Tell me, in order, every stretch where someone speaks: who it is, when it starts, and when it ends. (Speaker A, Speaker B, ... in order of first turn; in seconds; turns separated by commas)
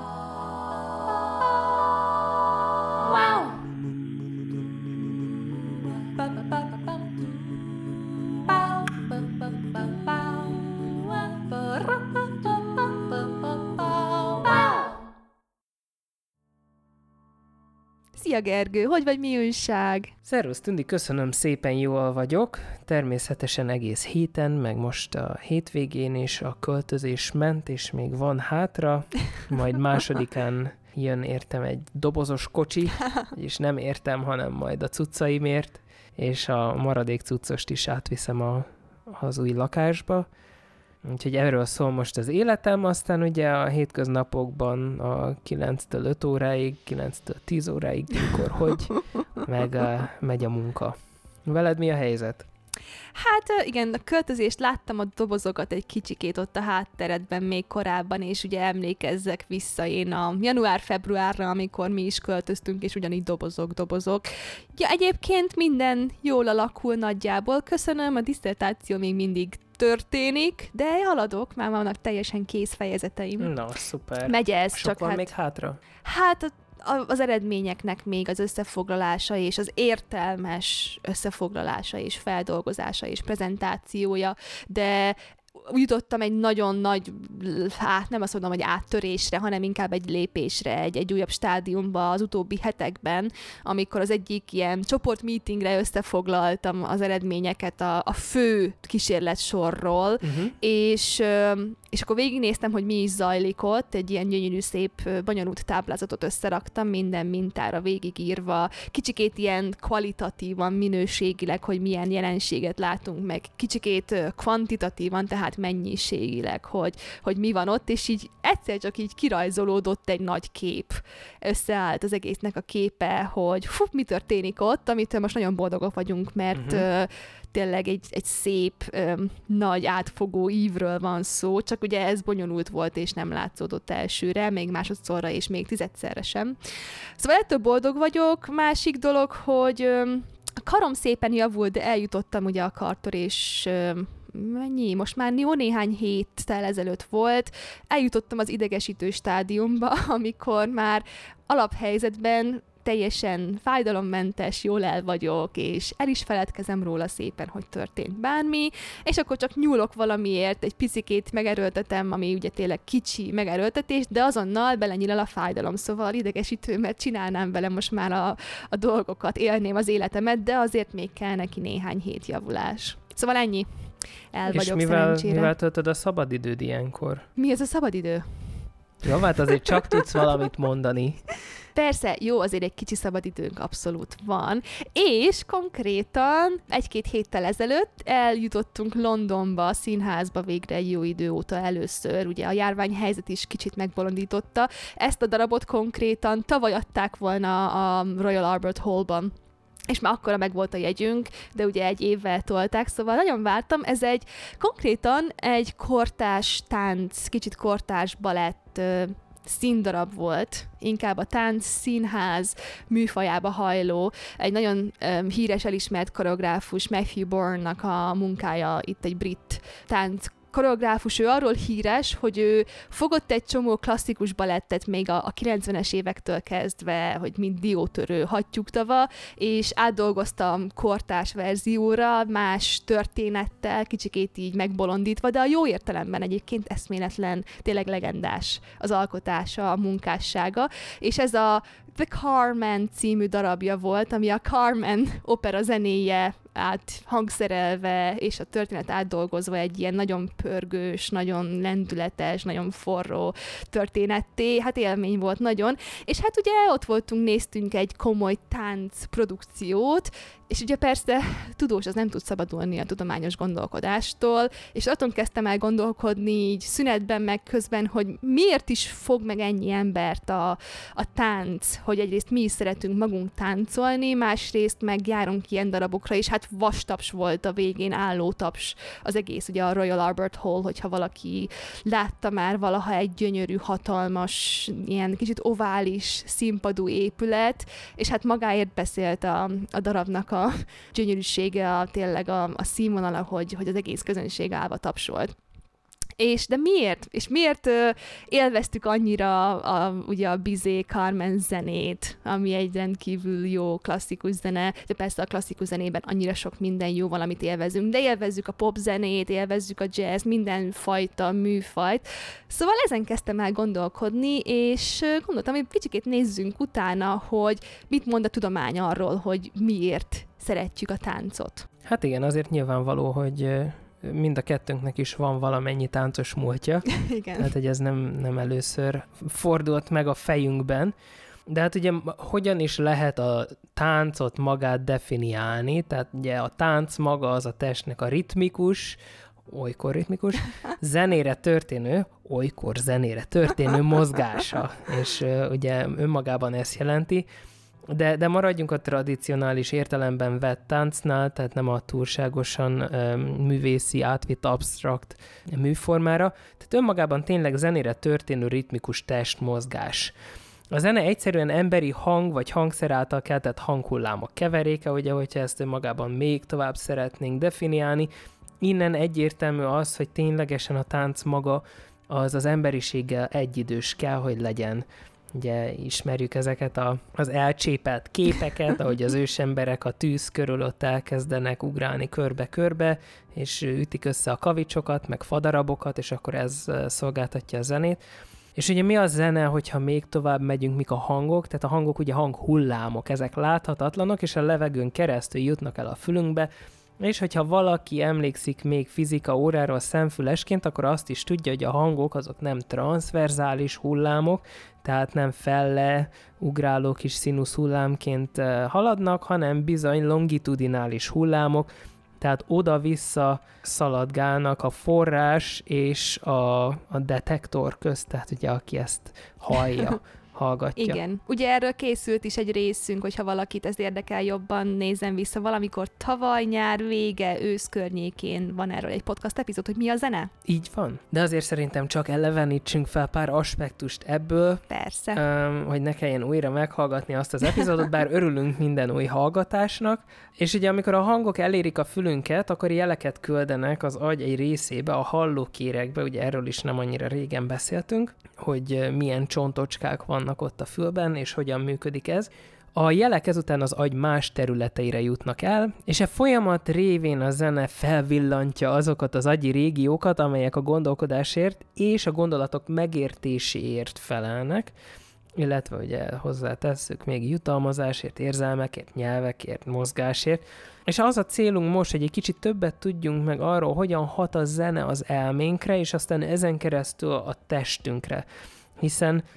Speaker A: 3.0-3.6, Speaker A: 6.0-7.3, Speaker A: 8.5-14.9, Speaker A: 18.1-20.1, Speaker B: 20.2-40.2, Speaker B: 41.0-52.5, Speaker A: 53.1-73.5, Speaker B: 73.4-75.8, Speaker A: 74.2-75.3, Speaker A: 76.0-136.6, Speaker B: 100.2-100.5, Speaker B: 126.5-126.8, Speaker A: 137.2-175.5, Speaker B: 174.5-177.2, Speaker A: 177.3-178.2, Speaker B: 179.0-181.2, Speaker A: 181.7-199.3, Speaker A: 199.9-295.3, Speaker A: 296.2-321.6, Speaker B: 321.8-326.9, Speaker A: 326.9-327.5, Speaker B: 327.4-330.9, Speaker B: 331.5-347.2, Speaker B: 347.9-360.1, Speaker B: 360.7-368.1, Speaker B: 368.6-388.0, Speaker B: 388.5-411.7, Speaker B: 412.2-421.0, Speaker A: 420.8-430.3, Speaker B: 430.4-464.7, Speaker A: 434.7-435.2, Speaker B: 465.4-478.2, Speaker B: 478.8-479.2